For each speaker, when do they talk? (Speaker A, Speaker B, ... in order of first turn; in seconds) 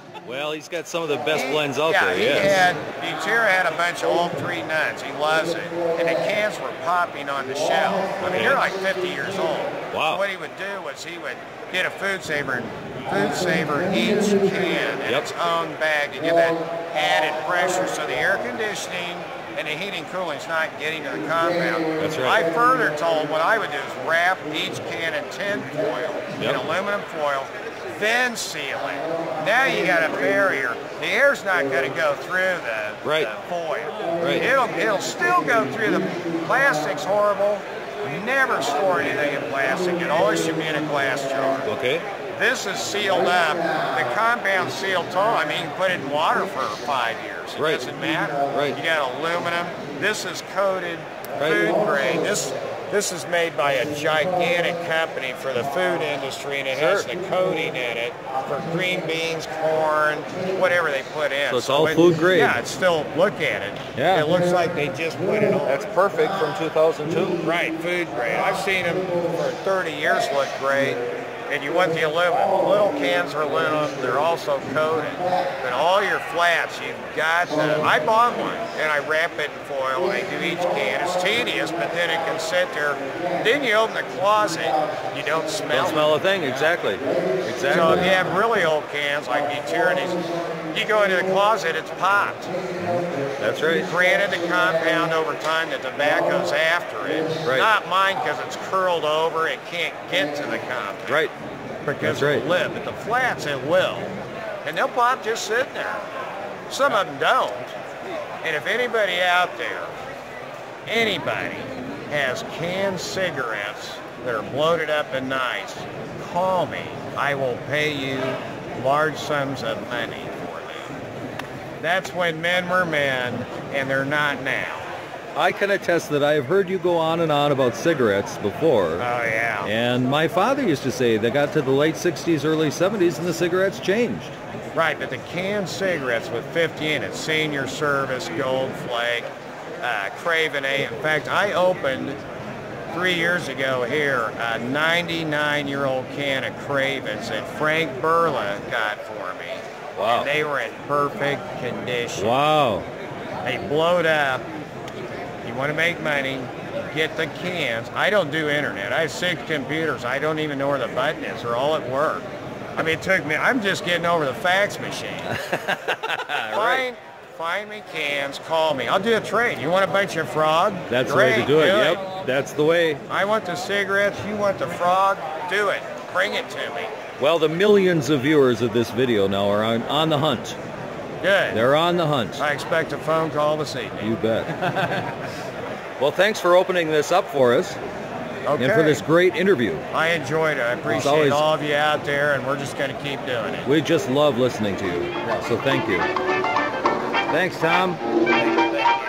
Speaker A: 0.2-2.7, 8.2-8.7, 9.9-10.2, 22.0-22.4, 26.4-26.6, 33.0-33.3, 34.2-34.4, 41.6-42.0, 47.5-47.9, 48.5-48.8, 51.4-51.7, 56.7-57.1, 61.5-62.6, 63.9-64.3, 65.6-67.4, 85.7-88.2, 92.8-93.9, 101.1-101.3, 102.0-102.5, 125.3-129.1, 129.6-134.3, 149.9-150.3, 152.2-152.9, 165.2-166.8, 170.9-173.0, 177.2-180.6, 181.5-182.4, 184.0-185.1, 186.0-187.8, 188.6-189.8, 190.8-191.4, 193.6-196.1, 197.3-198.0
Speaker B: 1.3-41.7, 42.3-65.9, 67.4-86.1, 87.7-92.6, 93.8-101.3, 101.8-106.0, 106.7-107.7, 108.4-109.9, 110.9-120.9, 121.8-124.9, 129.0-129.7, 134.7-139.3, 139.8-142.2, 142.9-152.4, 153.4-154.4, 155.4-165.3, 166.5-172.0, 173.1-176.9, 181.2-181.7, 182.4-184.1, 188.4-189.0, 189.9-193.7